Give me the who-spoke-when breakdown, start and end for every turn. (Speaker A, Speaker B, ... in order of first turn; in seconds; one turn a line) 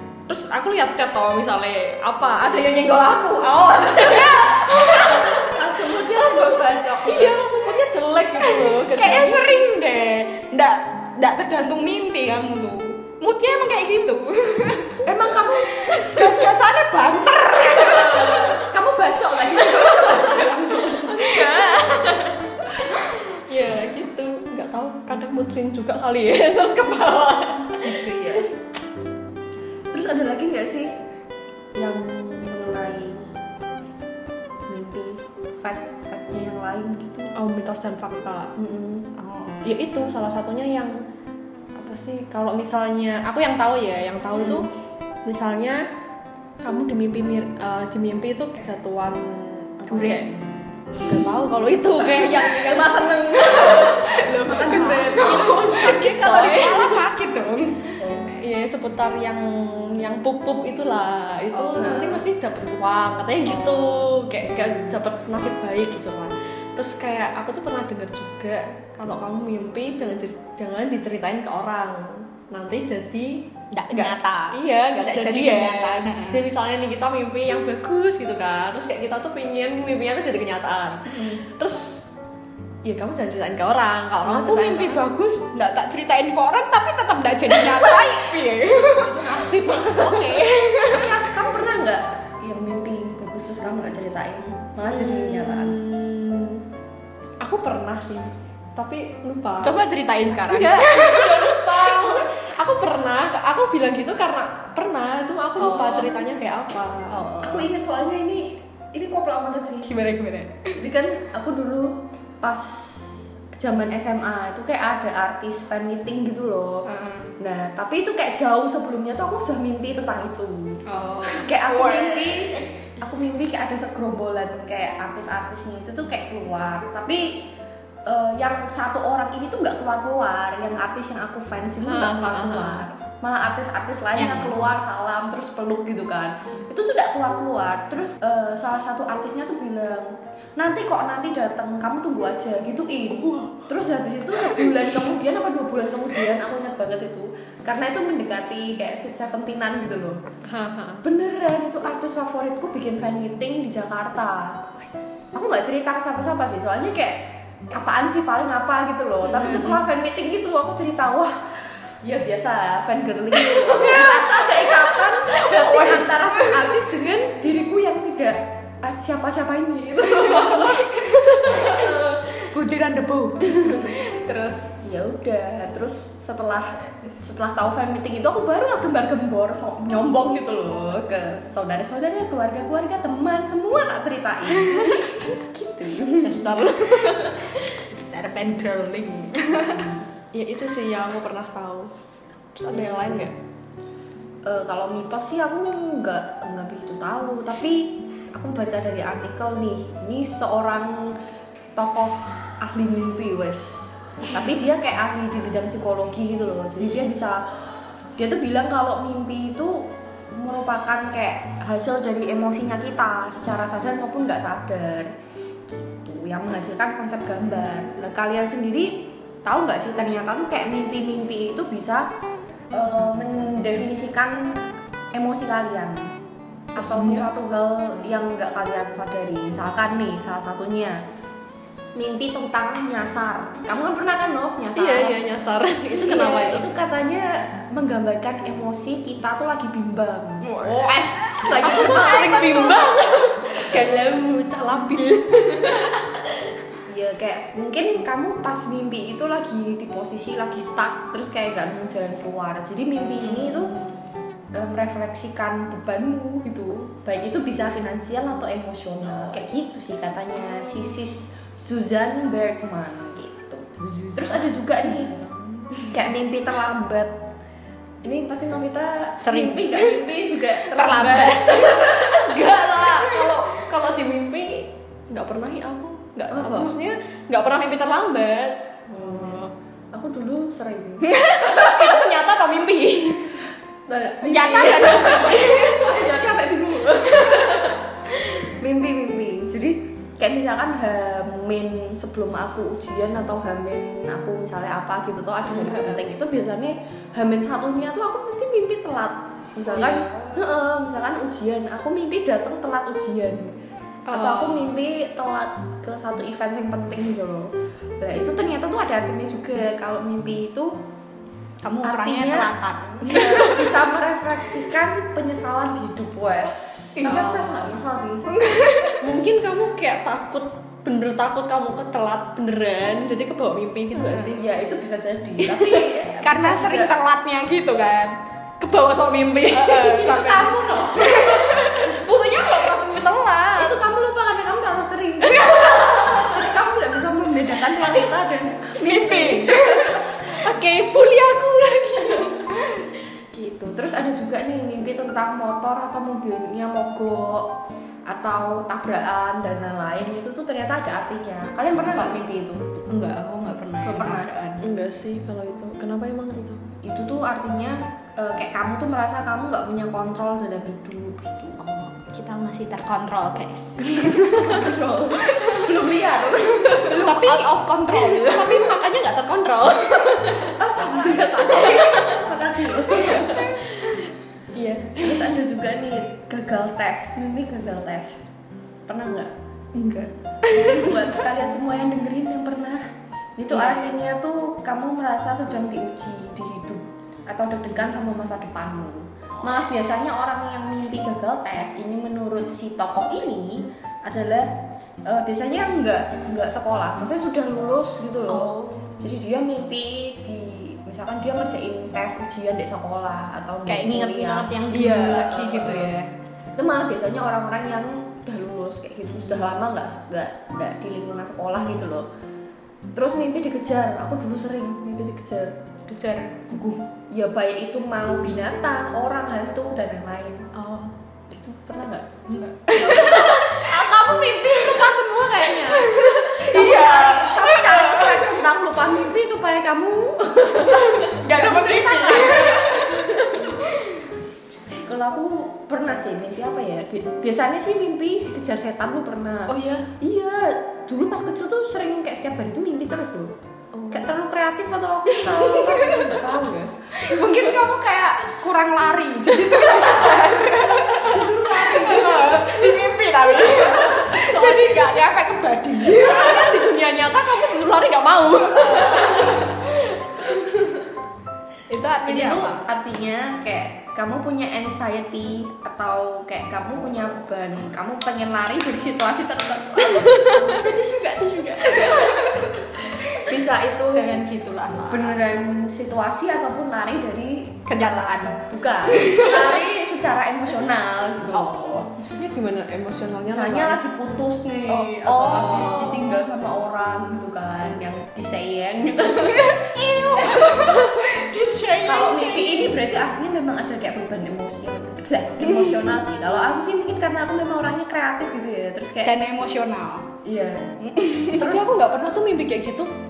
Speaker A: 0.3-5.1
Speaker B: 3.9-5.6
Speaker C: 5.0-7.4
Speaker A: 6.1-9.5
Speaker B: 8.4-18.7
Speaker C: 15.0-16.2
Speaker C: 17.7-21.9
Speaker B: 19.6-21.5
Speaker A: 20.7-27.9
Speaker B: 27.8-28.5
Speaker C: 29.9-30.9
Speaker C: 31.8-33.3
Speaker C: 34.7-37.3
Speaker A: 37.4-38.5
Speaker C: 38.6-39.1
Speaker B: 39.2-39.6
Speaker A: 39.6-41.0
Speaker A: 41.8-44.7
Speaker A: 45.2-45.9
Speaker A: 46.6-50.3
Speaker B: 49.9-50.4
Speaker B: 51.0-51.2
Speaker A: 51.0-53.8
Speaker B: 52.0-57.9
Speaker C: 52.5-55.9
Speaker A: 54.7-57.0
Speaker C: 58.0-58.3
Speaker A: 58.2-82.1
Speaker B: 61.5-62.2
Speaker C: 61.8-62.1
Speaker B: 73.7-76.4
Speaker C: 81.1-81.4
Speaker A: 82.8-85.1
Speaker B: 84.3-91.2
Speaker A: 88.8-90.4
Speaker C: 90.7-95.8
Speaker A: 94.9-96.6
Speaker A: 97.4-99.8
Speaker B: 99.6-102.2
Speaker A: 100.5-107.7
Speaker B: 105.6-106.2
Speaker C: 107.2-110.0
Speaker B: 109.8-110.9
Speaker C: 110.8-127.5
Speaker B: 116.8-117.3
Speaker B: 120.9-122.7
Speaker C: 128.1-150.2
Speaker A: 131.8-132.9
Speaker B: 134.2-134.7
Speaker B: 143.1-143.7
Speaker B: 144.4-144.8
Speaker A: 150.5-151.1
Speaker C: 151.0-154.7
Speaker C: 155.3-161.4
Speaker B: 159.4-159.8
Speaker C: 162.0-170.8
Speaker B: 163.5-166.8
Speaker B: 170.0-174.7
Speaker A: 170.1-172.4
Speaker C: 171.6-171.8
Speaker C: 174.8-186.6
Speaker B: 184.7-185.0
Speaker A: 186.2-187.8
Speaker B: 187.8-189.9
Speaker A: 190.3-191.9
Speaker A: 192.6-193.3
Speaker C: 192.8-193.3
Speaker C: 194.4-201.2
Speaker C: 201.8-207.4
Speaker C: 208.2-215.1
Speaker C: 215.8-222.1
Speaker C: 222.7-226.1
Speaker C: 226.7-231.0
Speaker B: 226.8-227.3
Speaker C: 231.9-235.2
Speaker A: 234.8-236.7
Speaker C: 235.9-242.9
Speaker B: 240.4-243.0
Speaker A: 241.4-246.0
Speaker B: 245.5-245.9
Speaker C: 246.9-253.8
Speaker B: 253.2-253.9
Speaker C: 254.5-265.1
Speaker B: 263.8-265.4
Speaker C: 265.8-267.2
Speaker C: 268.0-272.4
Speaker B: 269.2-272.1
Speaker A: 271.5-279.5
Speaker C: 276.3-276.7
Speaker C: 278.9-281.1
Speaker B: 281.0-282.1
Speaker A: 281.4-283.4
Speaker C: 283.9-303.6
Speaker A: 284.0-285.7
Speaker B: 284.2-286.1
Speaker A: 287.2-287.8
Speaker A: 299.7-300.3
Speaker A: 304.1-304.7
Speaker C: 304.1-310.8
Speaker B: 311.6-313.8
Speaker C: 311.8-312.5
Speaker C: 313.0-318.3
Speaker B: 316.9-317.7
Speaker B: 318.3-319.0
Speaker A: 319.0-324.5
Speaker C: 324.0-326.9
Speaker B: 326.2-328.2
Speaker A: 328.6-330.3
Speaker B: 329.4-332.0
Speaker C: 329.9-331.5
Speaker A: 331.1-333.8
Speaker C: 333.6-340.2
Speaker A: 335.4-336.4
Speaker B: 338.8-340.2
Speaker A: 340.2-342.7
Speaker C: 343.3-347.5
Speaker C: 348.1-352.7
Speaker B: 351.9-352.2
Speaker B: 352.9-354.6
Speaker C: 353.8-354.3
Speaker A: 354.6-356.7
Speaker C: 356.8-361.9
Speaker B: 361.9-364.6
Speaker A: 364.3-364.6
Speaker C: 364.3-367.0
Speaker B: 365.2-365.8
Speaker B: 366.7-368.8
Speaker A: 366.8-370.6
Speaker C: 370.6-373.5
Speaker A: 371.9-372.2
Speaker A: 373.0-374.0
Speaker A: 374.6-375.3
Speaker C: 374.9-378.2
Speaker C: 378.9-379.3
Speaker B: 379.7-381.1
Speaker C: 380.5-382.8
Speaker C: 383.4-406.0
Speaker B: 383.5-383.8
Speaker B: 398.3-399.0
Speaker B: 403.7-406.1
Speaker C: 406.6-412.1
Speaker C: 412.9-415.6
Speaker B: 415.9-416.9
Speaker C: 417.1-420.5
Speaker B: 420.6-420.9
Speaker C: 421.3-433.6
Speaker B: 422.3-423.9
Speaker B: 424.5-425.0
Speaker B: 425.6-428.5
Speaker B: 430.6-433.9
Speaker C: 434.8-443.3
Speaker A: 439.5-439.9
Speaker A: 443.7-444.0
Speaker C: 443.9-446.8
Speaker B: 445.6-446.2
Speaker B: 446.9-456.7
Speaker C: 451.0-452.8
Speaker C: 453.4-453.8
Speaker A: 453.8-455.0
Speaker A: 455.8-459.6
Speaker B: 458.5-459.9
Speaker B: 461.7-462.7
Speaker C: 462.1-474.1
Speaker A: 469.9-470.6
Speaker B: 471.6-472.4
Speaker A: 471.6-472.2
Speaker B: 473.9-475.2
Speaker C: 474.9-477.8
Speaker B: 477.7-479.6
Speaker C: 478.5-481.6
Speaker B: 481.3-481.9
Speaker A: 481.9-483.8
Speaker C: 483.3-489.6
Speaker B: 484.7-486.2
Speaker B: 489.2-492.8
Speaker C: 490.2-490.6
Speaker C: 491.8-499.2
Speaker B: 495.4-495.9
Speaker B: 499.0-500.1
Speaker C: 500.2-500.7
Speaker B: 500.8-501.4
Speaker A: 501.4-502.9
Speaker C: 501.4-501.8